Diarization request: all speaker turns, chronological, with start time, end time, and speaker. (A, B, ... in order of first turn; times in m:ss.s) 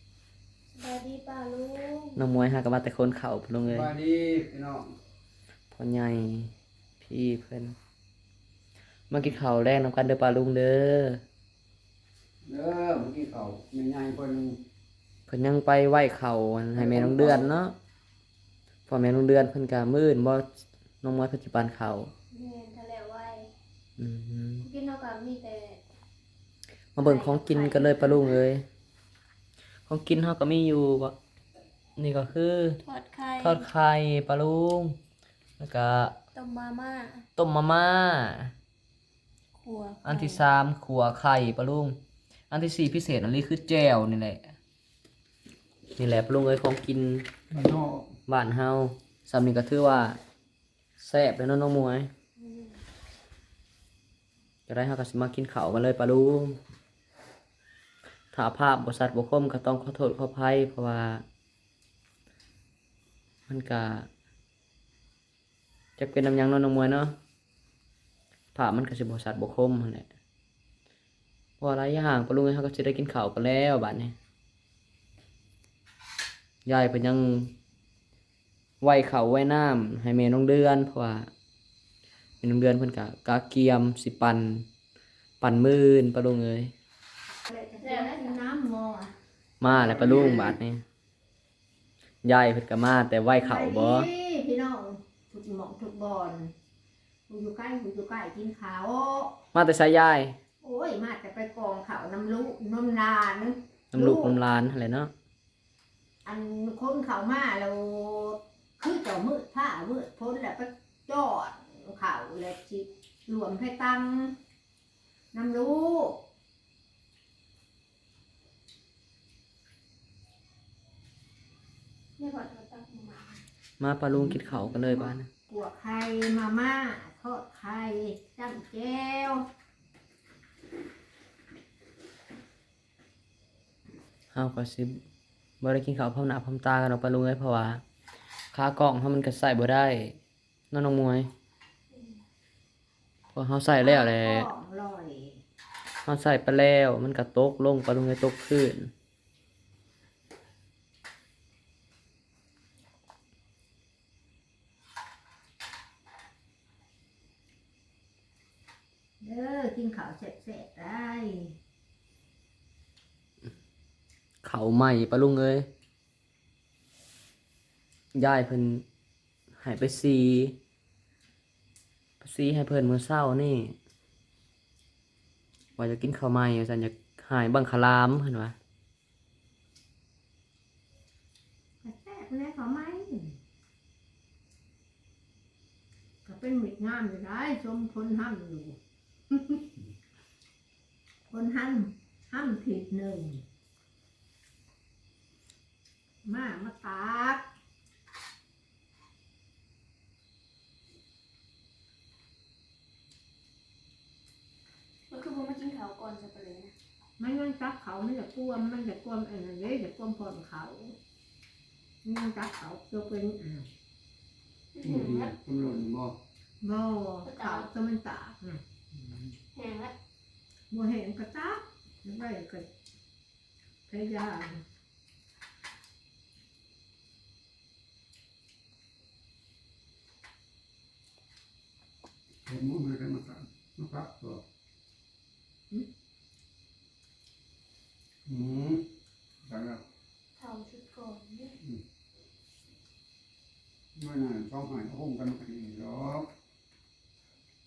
0:00.7-0:02.2 A
0:02.2-0:03.9 B
0:03.7-0:04.9 C
0:05.7-0:07.7 B
0:09.1-0:11.2 B
0:12.4-0:14.6 C
0:15.3-0:17.7 B
0:16.8-0:17.5 C
0:18.9-0:20.5 B
0:21.0-0:22.1 B
0:22.3-0:23.5 A
0:24.0-0:24.7 B
0:24.6-0:25.8 A
0:27.0-0:28.6 B
0:27.0-0:28.4 A
0:29.9-0:31.1 B
0:32.0-0:32.8 B
0:32.8-0:33.7 A
0:33.4-0:35.0 B
0:35.6-0:36.2 B
0:36.3-0:37.2 A
0:37.4-0:38.5 B
0:39.6-0:40.4 A
0:40.0-0:42.0 B
0:42.5-0:44.5 B
0:46.0-0:47.3 B
0:47.5-0:48.1 C
0:48.3-0:50.2 B
0:51.0-0:52.1 B
0:52.4-0:52.7 A
0:54.7-0:56.6 B
0:58.3-1:01.2 B
1:03.5-1:04.1 B
1:06.0-1:07.1 B
1:08.6-1:10.1 B
1:11.6-1:14.1 B
1:16.7-1:17.5 B
1:18.8-1:21.3 B
1:22.4-1:24.7 B
1:25.4-1:26.7 B
1:27.5-1:29.1 D
1:27.5-1:28.4 A
1:29.6-1:30.8 B
1:29.7-1:30.5 C
1:32.2-1:34.1 B
1:33.4-1:36.5 D
1:37.3-1:39.4 D
1:39.5-1:40.4 B
1:40.6-1:44.4 D
1:43.9-1:45.1 B
1:46.2-1:54.3 D
1:55.3-1:56.2 D
2:02.2-2:03.4 A
2:03.8-2:05.3 B
2:04.2-2:09.5 D
2:14.3-2:15.0 B
2:15.6-2:17.8 B
2:18.5-2:20.2 B
2:20.7-2:21.3 B
2:21.9-2:22.2 A
2:23.3-2:24.5 B
2:23.8-2:25.4 D
2:26.1-2:28.9 B
2:39.2-2:41.6 D
2:44.4-2:45.7 B
2:48.1-2:48.8 B
2:49.6-2:50.6 B
2:52.2-2:53.8 B
2:55.8-2:58.6 B
3:01.8-3:03.4 D
3:06.2-3:08.8 D
3:09.3-3:09.6 D
3:11.3-3:13.4 D
3:16.2-3:17.4 D
3:25.1-3:26.7 A
3:27.2-3:31.0 D
3:32.0-3:33.7 D
3:34.7-3:35.3 A
3:34.8-3:36.2 C
3:36.6-3:38.6 D
3:37.3-3:37.7 A
3:39.5-3:39.9 A
3:40.7-3:42.7 D
3:43.9-3:44.6 D
3:52.5-3:54.4 C
3:58.3-3:58.9 C
3:59.4-3:59.8 C
4:00.4-4:01.6 A
4:04.0-4:06.3 C